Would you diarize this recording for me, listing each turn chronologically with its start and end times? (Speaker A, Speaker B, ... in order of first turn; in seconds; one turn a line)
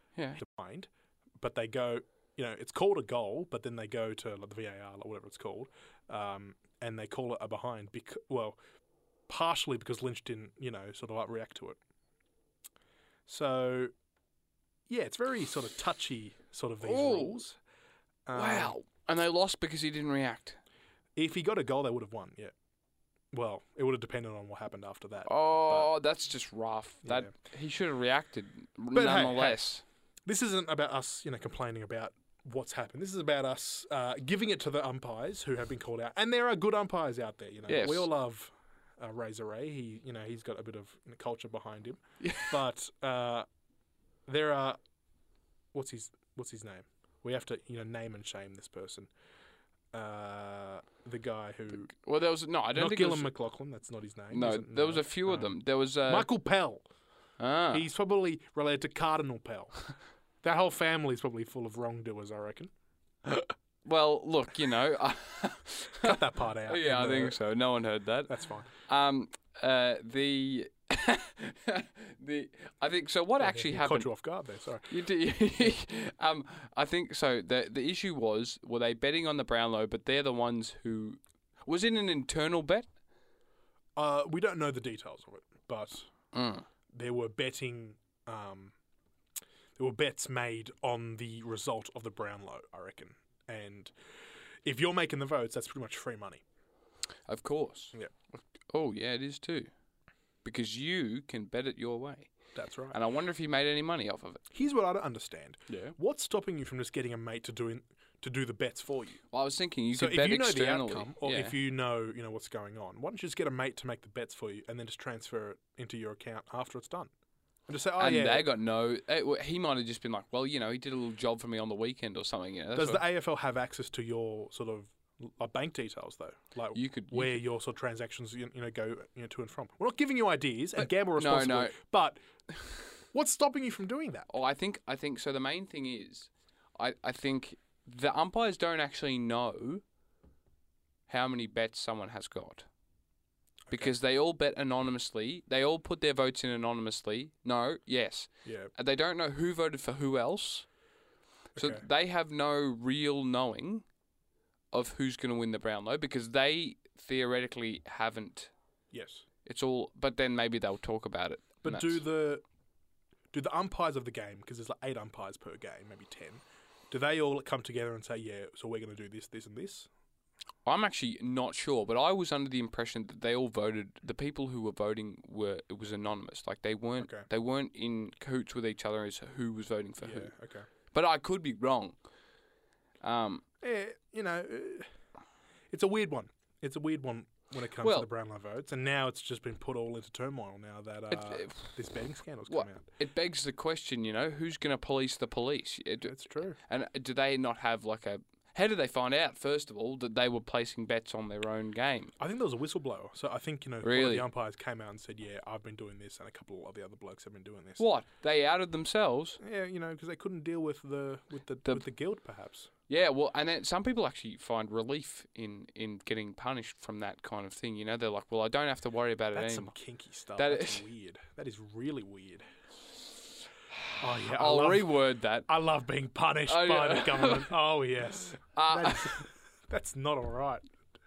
Speaker A: 0.4-8.6
Speaker A: 9.3-11.8
Speaker A: 13.3-13.9
Speaker A: 14.9-17.6
Speaker B: 16.8-17.4
Speaker A: 18.2-18.7
Speaker B: 18.3-20.6
Speaker A: 21.1-22.5
Speaker A: 23.3-25.9
Speaker B: 25.2-29.8
Speaker A: 27.0-27.3
Speaker A: 28.9-29.6
Speaker A: 30.2-43.5
Speaker B: 37.7-38.1
Speaker B: 42.2-42.5
Speaker A: 44.3-44.8
Speaker A: 45.7-49.1
Speaker A: 49.9-51.9
Speaker B: 51.9-53.3
Speaker A: 52.7-55.5
Speaker B: 54.3-56.3
Speaker A: 56.0-56.8
Speaker B: 57.4-57.8
Speaker A: 57.7-59.8
Speaker A: 60.4-62.7
Speaker B: 63.2-74.1
Speaker A: 66.0-67.4
Speaker A: 68.3-68.7
Speaker A: 73.4-74.9
Speaker B: 74.9-82.9
Speaker A: 84.0-86.1
Speaker B: 86.3-86.7
Speaker A: 86.9-88.7
Speaker A: 89.8-93.9
Speaker A: 94.6-96.4
Speaker B: 97.3-99.7
Speaker B: 100.4-102.3
Speaker A: 102.5-103.0
Speaker B: 102.9-104.4
Speaker A: 104.5-109.2
Speaker B: 105.7-105.9
Speaker B: 109.3-111.5
Speaker A: 109.9-117.1
Speaker A: 117.7-118.5
Speaker B: 118.0-123.0
Speaker A: 122.7-132.2
Speaker B: 126.7-127.4
Speaker B: 130.8-131.8
Speaker A: 133.1-134.3
Speaker B: 134.3-139.8
Speaker B: 141.1-142.7
Speaker B: 143.7-150.7
Speaker A: 148.4-148.7
Speaker A: 151.6-151.8
Speaker B: 151.6-153.8
Speaker B: 154.7-158.5
Speaker A: 158.9-159.2
Speaker B: 159.4-162.0
Speaker A: 161.6-162.4
Speaker A: 163.3-169.9
Speaker B: 170.6-180.3
Speaker A: 177.0-177.3
Speaker A: 180.0-180.7
Speaker B: 180.9-182.0
Speaker B: 183.0-183.4
Speaker A: 183.6-184.9
Speaker A: 185.7-192.9
Speaker B: 187.8-188.1
Speaker B: 191.1-191.7
Speaker B: 192.5-202.1
Speaker A: 196.0-196.6
Speaker A: 202.2-207.8
Speaker B: 203.8-204.2
Speaker B: 207.8-209.4
Speaker A: 209.4-212.7
Speaker B: 212.9-219.7
Speaker A: 219.3-222.4
Speaker B: 220.4-220.8
Speaker B: 223.9-225.5
Speaker A: 224.0-224.9
Speaker A: 225.5-230.6
Speaker B: 226.5-227.5
Speaker B: 228.5-229.2